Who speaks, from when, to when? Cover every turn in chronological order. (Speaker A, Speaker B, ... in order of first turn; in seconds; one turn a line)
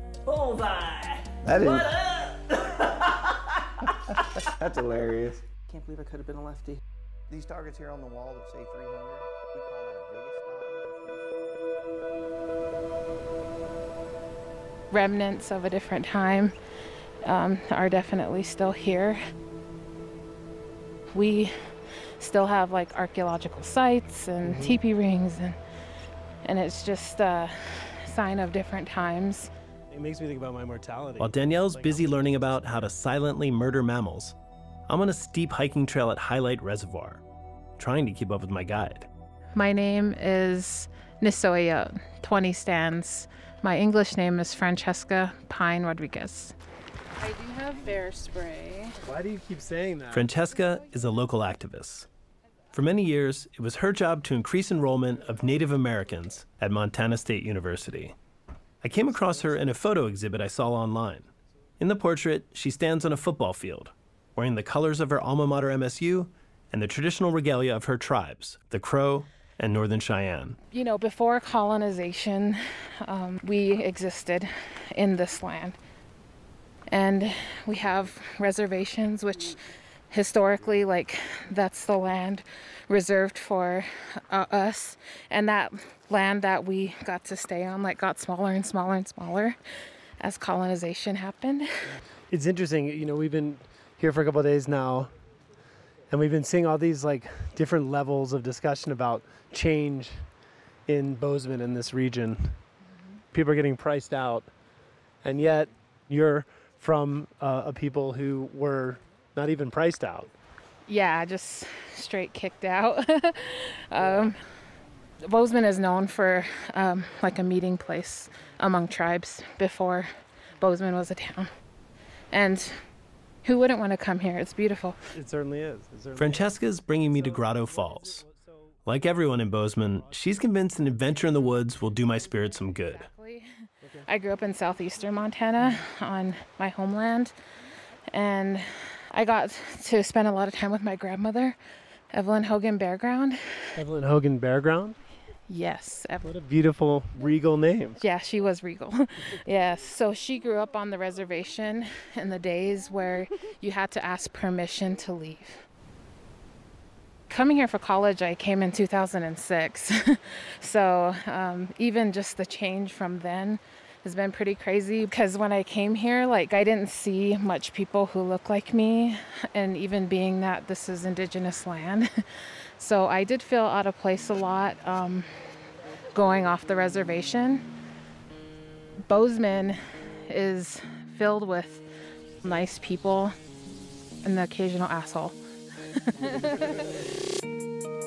Speaker A: 0.2-2.3
Speaker B: 1.4-3.2
Speaker B: 4.0-5.4
Speaker A: 5.7-6.8
Speaker B: 7.3-11.6
Speaker C: 14.9-16.6
Speaker C: 17.3-19.2
Speaker C: 21.1-21.5
Speaker C: 22.2-25.6
Speaker D: 24.4-24.8
Speaker C: 26.5-29.5
Speaker D: 29.9-32.4
Speaker E: 31.2-34.4
Speaker E: 34.9-37.2
Speaker E: 37.8-39.1
Speaker C: 39.5-46.5
Speaker C: 47.2-49.0
Speaker D: 49.0-50.3
Speaker E: 50.1-52.1
Speaker E: 52.7-58.2
Speaker E: 58.8-70.6
Speaker C: 70.7-75.8
Speaker C: 76.9-79.6
Speaker C: 80.1-89.6
Speaker C: 90.2-91.7
Speaker D: 92.3-95.1
Speaker D: 96.1-100.3
Speaker D: 100.9-102.6
Speaker D: 103.3-104.5
Speaker D: 105.2-110.3
Speaker C: 110.9-114.4
Speaker C: 115.2-120.1
Speaker C: 120.6-121.5
Speaker C: 122.3-122.7
Speaker C: 123.4-125.0
Speaker D: 125.1-126.5
Speaker E: 126.2-128.2
Speaker D: 127.0-128.3
Speaker E: 128.9-133.1
Speaker C: 132.4-133.5
Speaker C: 134.1-137.3
Speaker C: 138.1-141.6
Speaker C: 142.1-143.4
Speaker D: 143.8-145.0
Speaker C: 145.5-146.3
Speaker D: 146.2-148.0
Speaker C: 148.0-155.6
Speaker C: 157.3-172.2
Speaker C: 172.8-175.3
Speaker C: 176.1-177.6
Speaker C: 179.1-179.8
Speaker C: 180.3-181.8
Speaker C: 182.4-183.3
Speaker C: 184.2-185.4
Speaker C: 186.0-186.9